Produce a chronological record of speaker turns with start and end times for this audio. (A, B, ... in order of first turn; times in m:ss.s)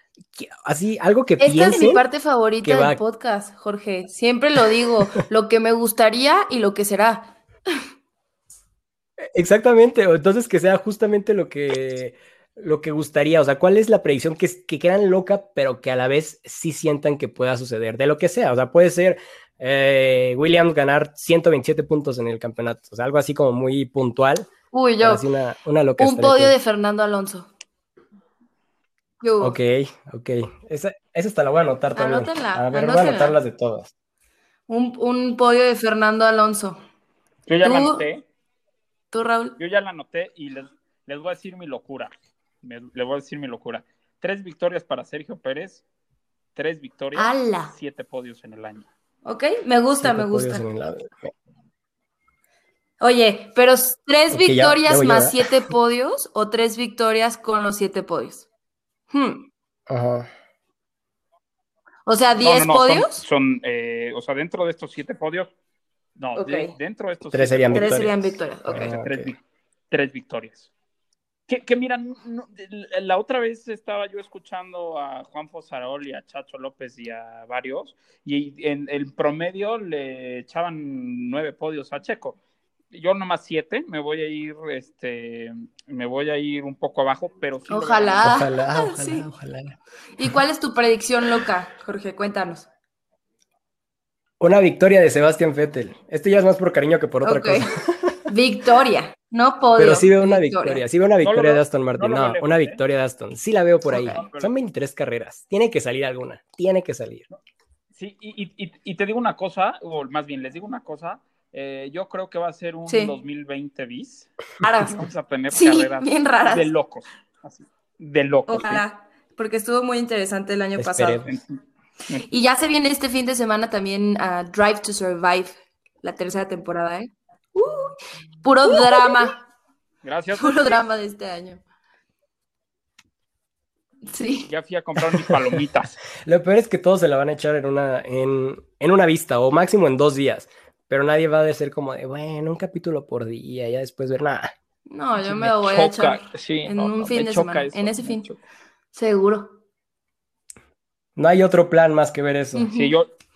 0:00.4-0:02.0 A
0:01.4-0:07.3 B
0:02.6-0:03.0 A
0:09.2-0:24.5 A
0:24.7-0:25.2 B
0:25.0-0:26.5 A
0:26.0-0:27.5 B
0:29.2-0:29.6 B
0:29.4-0:33.9 A
0:31.9-0:33.4 B
0:34.7-0:36.8 B
0:37.4-0:38.2 C
0:37.6-0:38.0 B
0:39.1-0:39.6 B
0:39.6-0:45.8 C
0:46.5-0:48.9 C
0:47.1-0:47.7 B
0:49.2-0:50.6 B
0:50.0-0:51.3 A
0:53.0-0:58.5 B
0:54.3-0:55.5 A
0:59.1-0:59.5 B
0:59.9-1:00.3 A
1:02.0-1:03.2 B
1:02.4-1:05.5 C
1:06.2-1:08.2 C
1:06.4-1:06.7 B
1:07.3-1:08.1 A
1:07.7-1:09.0 B
1:08.7-1:09.3 A
1:08.7-1:09.4 C
1:09.9-1:10.7 C
1:11.5-1:22.4 C
1:22.9-1:28.3 C
1:27.7-1:29.3 B
1:28.2-1:30.3 A
1:30.2-1:32.7 B
1:34.4-1:38.2 A
1:37.2-1:37.7 B
1:38.3-1:40.8 B
1:39.7-1:47.2 A
1:41.2-1:42.8 C
1:43.9-1:44.2 B
1:44.0-1:44.5 C
1:48.0-1:54.3 C
1:52.9-1:53.1 B
1:54.6-1:55.0 B
1:54.8-1:58.8 C
1:55.5-1:56.7 B
1:58.5-2:01.3 B
2:00.8-2:01.3 A
2:02.3-2:09.4 B
2:10.0-2:10.8 C
2:10.3-2:11.6 B
2:14.1-2:14.5 B
2:14.5-2:16.0 C
2:16.1-2:24.5 A
2:24.9-2:28.2 B
2:25.2-2:28.4 C
2:28.9-2:29.6 B
2:31.2-2:32.7 A
2:32.5-2:32.9 B
2:32.7-2:33.0 C